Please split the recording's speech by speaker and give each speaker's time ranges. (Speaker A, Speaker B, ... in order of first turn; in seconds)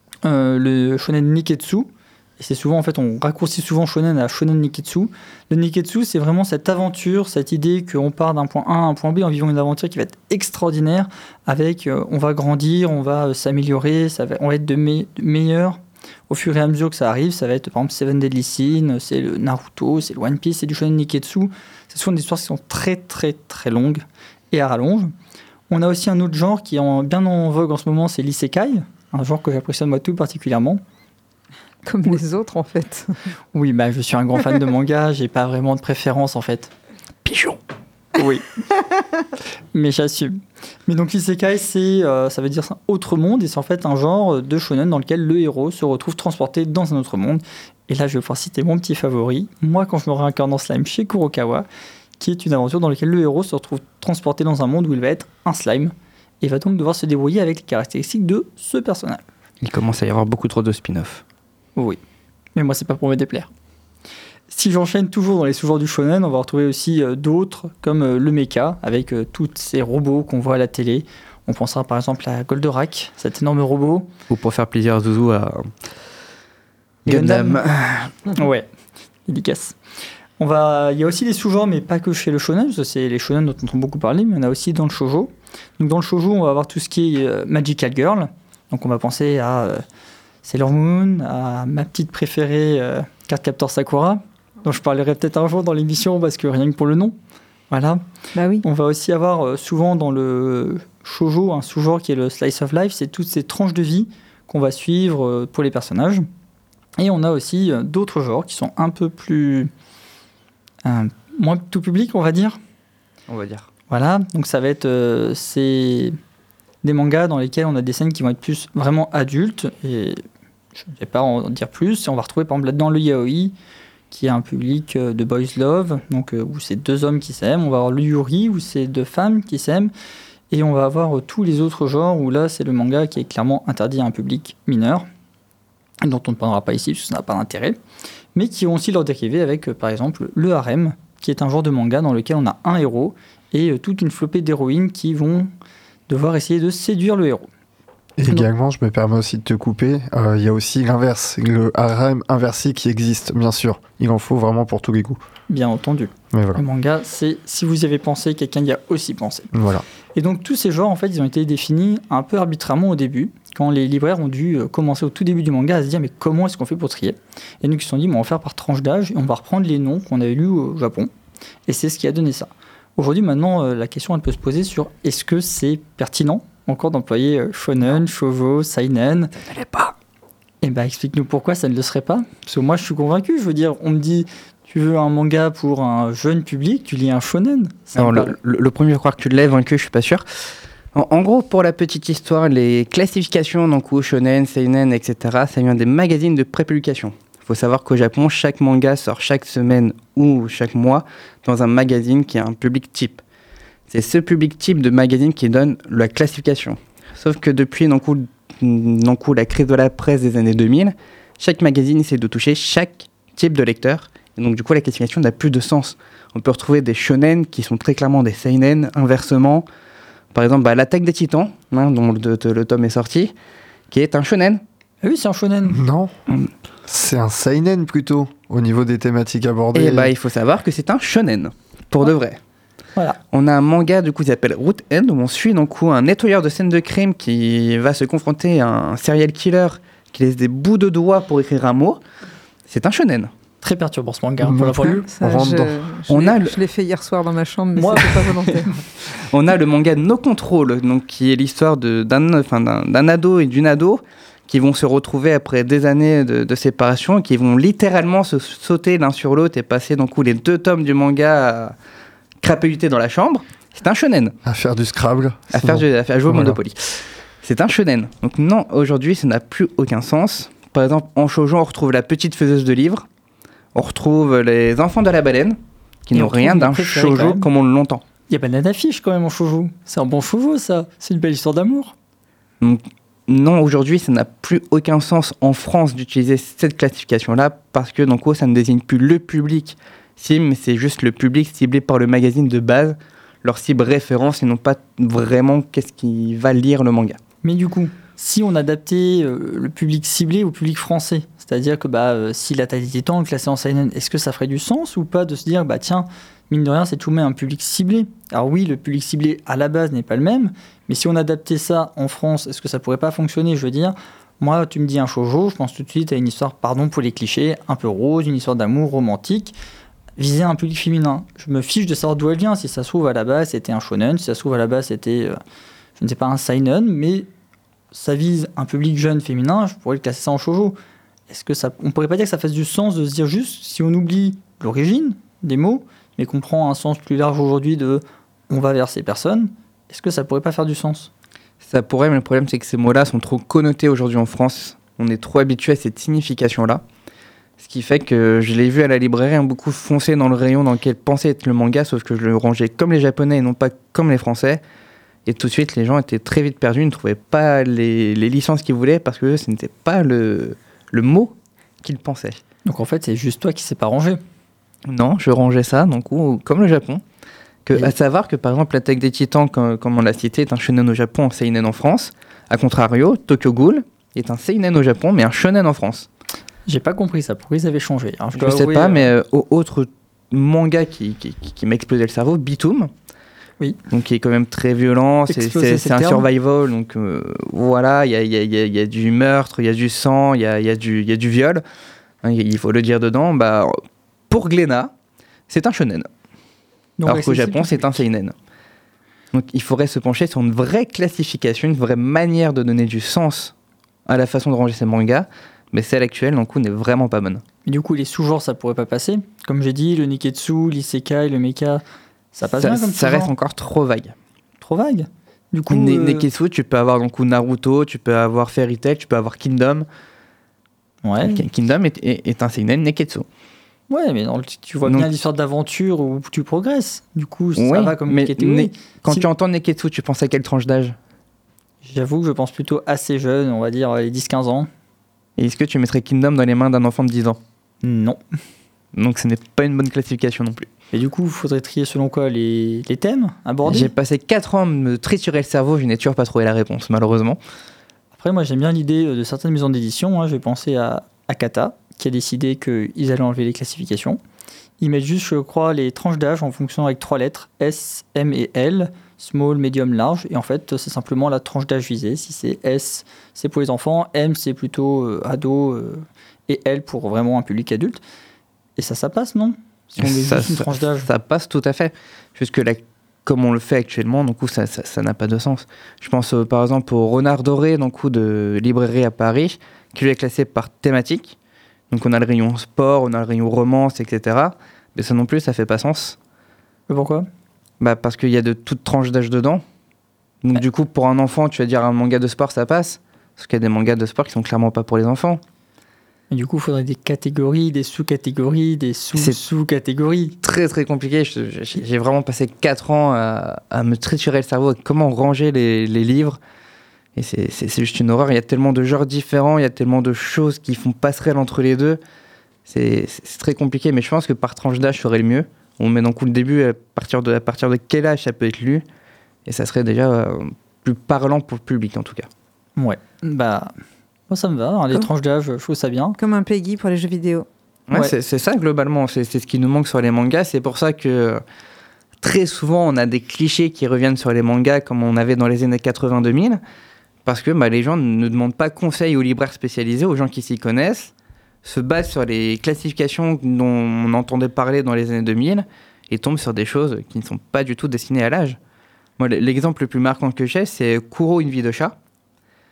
Speaker A: 0.2-25.1, 25.7-30.8, 33.5-36.7, 38.2-38.5, 39.7-51.7, 52.2-59.2, 62.5-63.5, 64.5-74.1, 77.1-77.6, 78.3-78.7, 79.3-79.8, 80.4-89.8, 90.4-97.2, 97.7-98.0, 98.6-106.3, 107.0-109.7, 110.8-112.6, 113.9-116.2, 116.8-120.2, 120.8-123.5, 124.1-129.9, 130.5-135.1, 136.0-137.8, 138.3-145.5, 146.1-147.5, 155.5-159.5, 160.2-171.1, 171.7-179.4, 180.6-188.4, 225.0-225.8, 243.6-245.0, 247.8-248.7, 276.1-277.5, 278.3-281.9, 297.4-319.6, 320.2-325.4, 326.0-327.3, 327.9-330.8, 331.3-341.1, 362.7-364.2, 376.7-379.1, 385.3-386.3, 397.0-398.0, 407.7-411.8, 412.3-413.3, 414.6-416.3, 421.0-421.4, 423.9-429.3, 431.8-434.7, 437.8-438.2, 440.9-443.9, 448.2-454.2, 454.8-468.0, 468.8-471.1, 486.9-487.3, 496.3-500.4, 522.8-523.7, 524.3-526.2
Speaker B: 31.9-33.1, 98.3-98.6, 244.9-248.8, 526.2-527.5
Speaker C: 37.2-37.6, 59.6-61.2, 74.3-75.7, 77.1-78.3, 113.3-113.7, 179.5-179.9, 188.0-190.2, 190.9-203.2, 203.9-219.7, 220.3-223.3, 223.9-224.6, 229.8-232.4, 233.3-242.0, 242.7-243.3, 246.1-246.6, 249.1-261.8, 262.4-264.4, 265.5-273.1, 273.8-278.0, 282.6-297.2, 341.6-346.8, 347.6-354.6, 355.3-362.4, 364.9-367.0, 367.6-376.1, 378.4-382.9, 383.9-391.6, 392.2-393.8, 394.3-394.9, 395.5-396.1, 397.1-398.3, 399.3-403.5, 404.1-407.4, 412.5-414.1, 415.7-419.9, 421.2-423.3, 427.6-431.0, 435.4-437.4, 438.9-440.7, 443.7-447.4, 470.0-481.4, 481.9-486.2, 487.8-489.6, 490.4-495.4, 500.4-506.4, 507.2-512.0, 512.7-518.8, 519.5-522.3, 527.9-531.4, 532.2-536.6, 537.2-541.1, 541.6-548.6, 549.2-552.0
Speaker D: 148.2-155.2, 156.3-156.6, 159.5-159.8, 225.7-226.1, 226.9-230.1, 244.4-245.9, 264.4-266.6